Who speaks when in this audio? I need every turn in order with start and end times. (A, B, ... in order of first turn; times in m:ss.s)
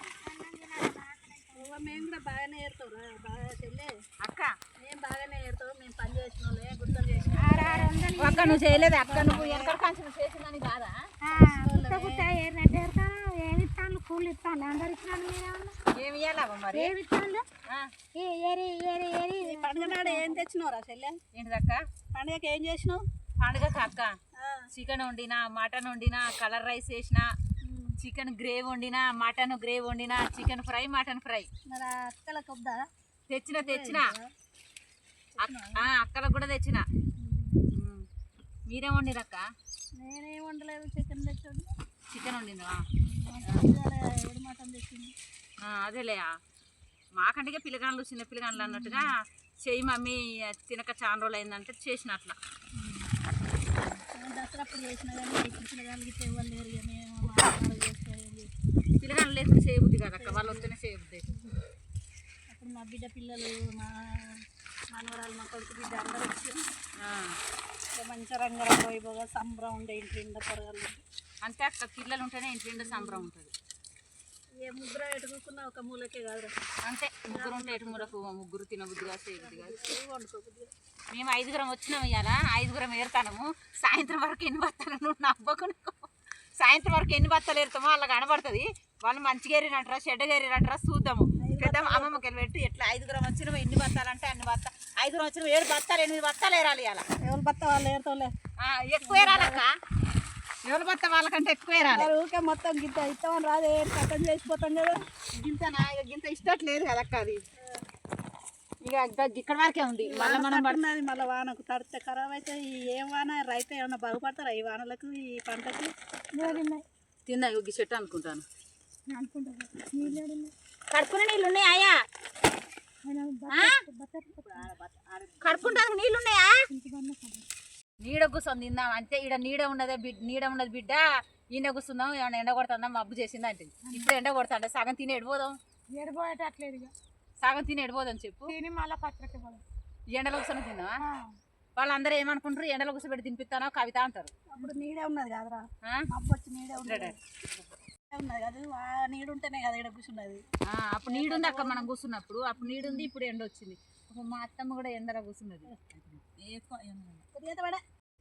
0:00.2-0:02.0 A
0:01.6-0:03.9 B
0:04.2-0:04.5 C
0:04.8-0:07.9 B
0:07.4-0:08.9 A
0:08.2-0:11.0 C
0:08.9-0:09.8 B
0:11.2-0:15.8 A
0:11.4-0:12.3 B
0:15.9-0:16.9 C
0:16.7-0:17.4 A
0:17.7-0:17.9 C
0:18.2-0:20.4 A
0:19.4-0:21.2 B
0:21.3-0:21.8 C
0:22.1-0:23.0 B
0:23.4-0:24.1 C
0:24.4-0:24.6 B
0:24.7-0:27.3 C
0:27.6-0:27.9 B
0:28.0-0:31.5 C
0:31.7-0:32.8 B
0:33.3-0:34.1 C
0:33.6-0:34.3 B
0:35.4-0:35.8 B
0:35.4-0:36.9 C
0:37.2-0:37.6 B
0:37.7-0:38.1 C
0:38.7-0:39.4 C
0:40.0-0:41.7 B
0:42.1-0:42.8 C
0:43.0-0:45.1 B
0:45.6-0:46.3 C
0:47.2-0:52.4 C
0:48.5-0:49.1 B
0:52.8-0:53.1 B
0:54.1-0:58.5 B
0:59.0-1:01.3 C
1:00.2-1:00.7 B
1:02.5-1:04.4 B
1:04.9-1:06.6 B
1:07.0-1:07.4 C
1:08.0-1:11.0 B
1:11.4-1:13.5 C
1:12.8-1:13.3 B
1:14.6-1:16.5 B
1:16.9-1:19.9 C
1:17.3-1:18.1 B
1:19.4-1:20.7 B
1:21.1-1:37.0 C
1:31.4-1:32.2 B
1:37.2-1:38.3 B
1:38.6-1:39.7 C
1:39.0-1:39.6 B
1:40.7-1:42.1 C
1:41.9-1:45.0 B
1:45.4-1:47.4 C
1:48.8-1:50.8 C
1:50.0-1:55.9 B
1:56.4-1:56.8 A
1:57.3-1:58.4 C
1:59.1-2:00.5 A
2:00.9-2:02.0 C
2:03.0-2:04.7 A
2:03.5-2:03.8 C
2:04.5-2:05.4 B
2:05.4-2:06.6 C
2:06.7-2:07.4 A
2:08.0-2:15.6 C
2:13.8-2:14.2 A
2:15.9-2:16.9 A
2:17.4-2:18.5 C
2:18.5-2:19.6 A
2:20.1-2:20.9 C
2:21.0-2:21.3 A
2:21.8-2:24.3 C
2:24.5-2:27.2 B
2:26.8-2:27.2 C
2:28.1-2:30.4 B
2:30.7-2:37.2 C
2:31.1-2:31.9 B
2:32.6-2:33.1 B
2:37.3-2:37.8 B